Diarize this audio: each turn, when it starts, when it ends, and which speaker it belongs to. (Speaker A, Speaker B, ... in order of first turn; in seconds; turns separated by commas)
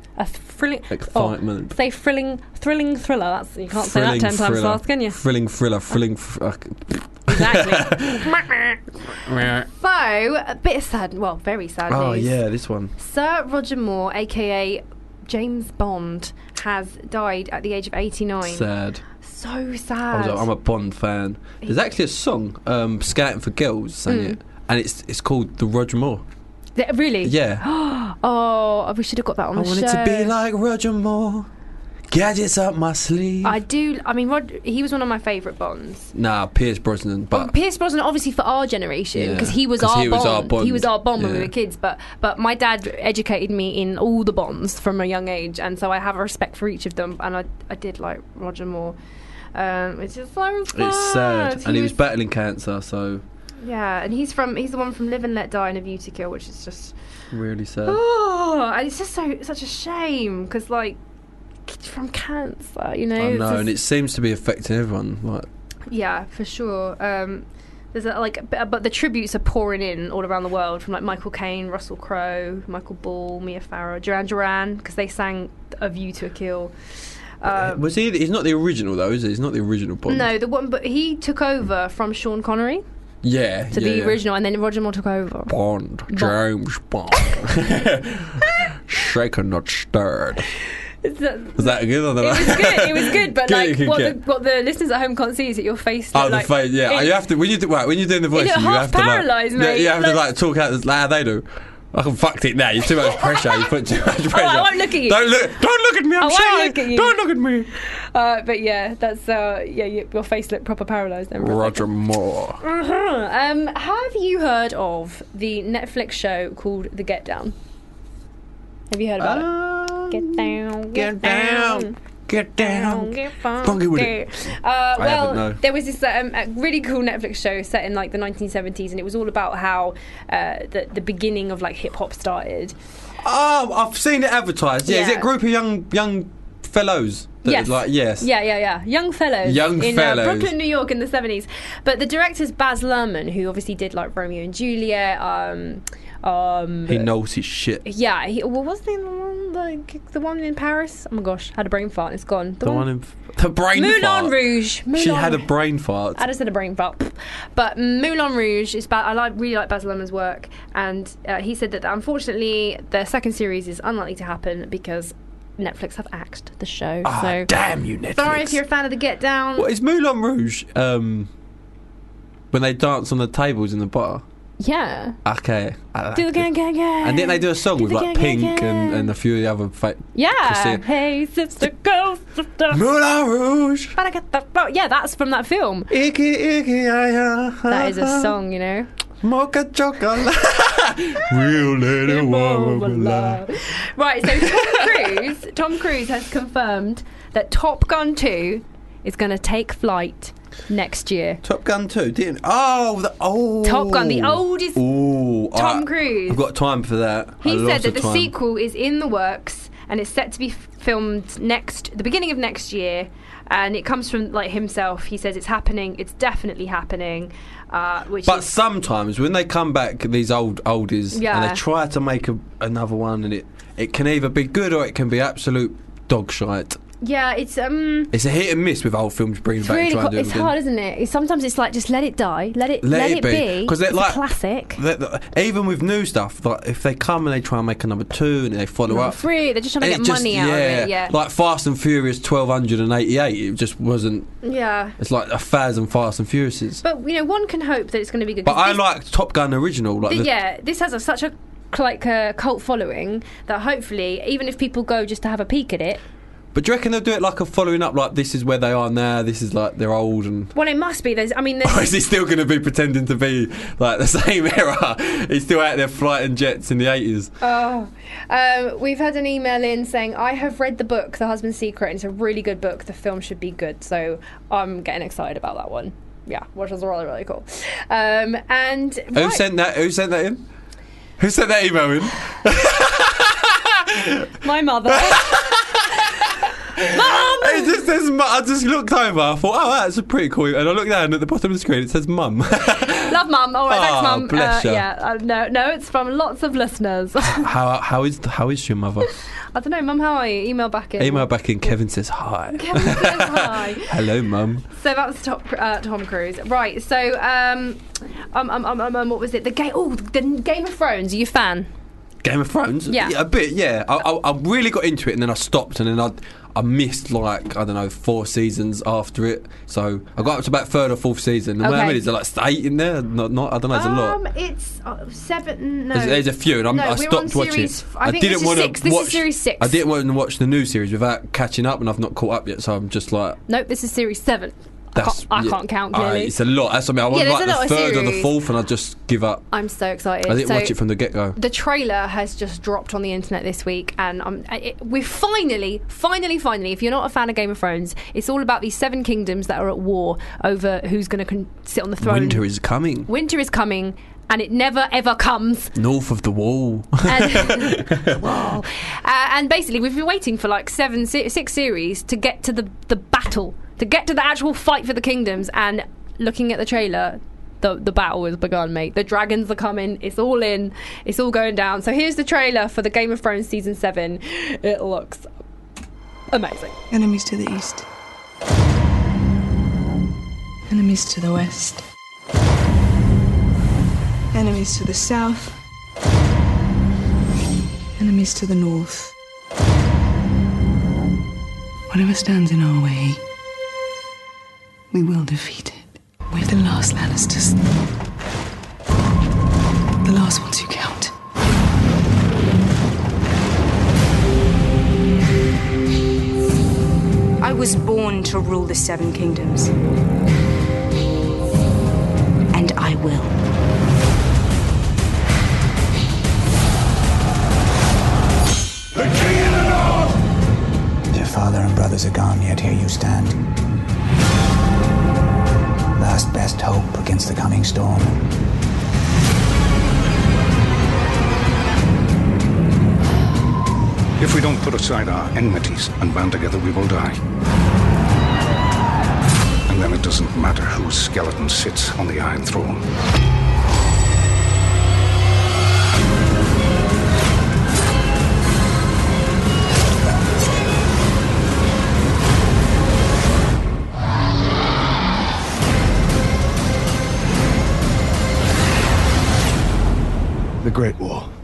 Speaker A: 0.2-5.2, Speaker B: 0.9-1.8, Speaker B: 3.7-8.5, Speaker A: 7.3-8.5, Speaker B: 9.2-9.7, Speaker A: 9.7-12.4, Speaker B: 11.9-12.9, Speaker A: 13.0-18.7, Speaker B: 18.4-19.0, Speaker A: 19.2-20.5, Speaker B: 20.1-26.2, Speaker A: 24.1-24.4, Speaker A: 26.8-30.3, Speaker B: 27.2-27.6, Speaker B: 29.5-31.5, Speaker B: 32.1-33.6, Speaker A: 33.4-36.1, Speaker B: 36.1-37.5, Speaker A: 37.3-49.0, Speaker B: 39.1-41.5, Speaker A: 49.5-52.0, Speaker B: 50.7-53.2, Speaker A: 53.6-57.0, Speaker B: 57.3-58.0, Speaker A: 57.9-61.0, Speaker A: 61.7-63.7, Speaker B: 63.2-65.5, Speaker A: 65.9-76.7, Speaker A: 77.4-77.8, Speaker B: 77.5-80.3, Speaker A: 80.1-82.8, Speaker B: 83.2-84.2, Speaker A: 83.7-85.5, Speaker B: 85.5-90.5, Speaker A: 86.1-86.4, Speaker A: 91.0-97.1, Speaker B: 91.6-94.2, Speaker B: 96.1-107.7, Speaker A: 98.3-100.2, Speaker A: 103.0-103.7, Speaker A: 104.3-105.4, Speaker A: 106.2-107.2, Speaker A: 108.1-111.9, Speaker B: 111.4-112.6, Speaker A: 112.6-117.5, Speaker A: 118.9-119.5, Speaker B: 119.2-124.2, Speaker A: 120.1-122.0, Speaker A: 122.6-132.8, Speaker B: 125.0-125.6, Speaker B: 133.2-138.3, Speaker A: 134.9-135.3, Speaker A: 137.4-147.1, Speaker B: 139.4-140.5, Speaker B: 146.9-147.8, Speaker A: 147.8-152.9, Speaker B: 152.6-156.2, Speaker A: 153.7-155.5, Speaker A: 156.2-167.5, Speaker B: 167.0-168.6, Speaker A: 168.1-169.7, Speaker B: 169.6-171.3, Speaker B: 172.5-174.2, Speaker A: 174.6-175.2, Speaker B: 175.2-176.5, Speaker A: 176.2-179.1, Speaker B: 177.0-180.8, Speaker A: 180.2-182.8, Speaker B: 182.7-184.0, Speaker A: 184.0-185.9, Speaker B: 185.9-188.3, Speaker A: 187.7-188.9, Speaker B: 189.2-193.4, Speaker A: 192.0-201.4, Speaker B: 194.3-195.3, Speaker B: 201.4-208.3, Speaker A: 203.6-204.8, Speaker A: 205.5-206.4, Speaker A: 207.4-218.5, Speaker B: 218.2-226.8, Speaker A: 221.1-221.6, Speaker A: 227.0-228.1, Speaker B: 228.1-230.5, Speaker A: 229.6-234.8, Speaker B: 232.8-234.2, Speaker B: 234.8-239.2, Speaker A: 238.9-241.1, Speaker B: 239.8-244.3, Speaker A: 244.4-244.9, Speaker B: 245.0-246.8, Speaker A: 246.8-248.8, Speaker B: 248.4-250.3, Speaker A: 250.1-256.0, Speaker B: 256.5-260.5, Speaker A: 260.6-261.9, Speaker B: 261.6-267.3, Speaker A: 267.4-279.4, Speaker B: 279.1-280.4, Speaker B: 281.2-284.3, Speaker A: 284.4-285.6, Speaker B: 284.9-293.1, Speaker A: 286.9-287.8, Speaker A: 292.8-297.5, Speaker B: 293.7-294.9, Speaker B: 297.3-299.1, Speaker A: 299.5-301.7, Speaker B: 301.0-304.6, Speaker A: 302.5-303.9, Speaker A: 304.7-307.8, Speaker A: 308.3-311.7, Speaker B: 312.2-324.2, Speaker A: 312.9-313.2, Speaker A: 321.6-322.1, Speaker A: 323.7-329.8, Speaker B: 325.9-333.4, Speaker A: 333.5-336.3, Speaker B: 334.9-339.4, Speaker A: 337.1-338.3, Speaker A: 339.5-340.8, Speaker B: 340.3-341.4, Speaker A: 341.4-352.4, Speaker B: 352.0-353.1, Speaker A: 353.1-355.7, Speaker B: 355.8-358.2, Speaker A: 357.1-375.3, Speaker A: 376.3-376.8, Speaker C: 376.9-377.9, Speaker C: 380.7-381.8, Speaker C: 384.3-385.6, Speaker C: 388.0-389.1, Speaker C: 391.9-393.2, Speaker C: 394.9-397.6, Speaker C: 400.0-401.1, Speaker D: 407.4-409.7, Speaker D: 412.5-413.3, Speaker E: 421.1-423.4, Speaker E: 426.0-428.2, Speaker F: 434.2-437.2, Speaker F: 439.7-442.9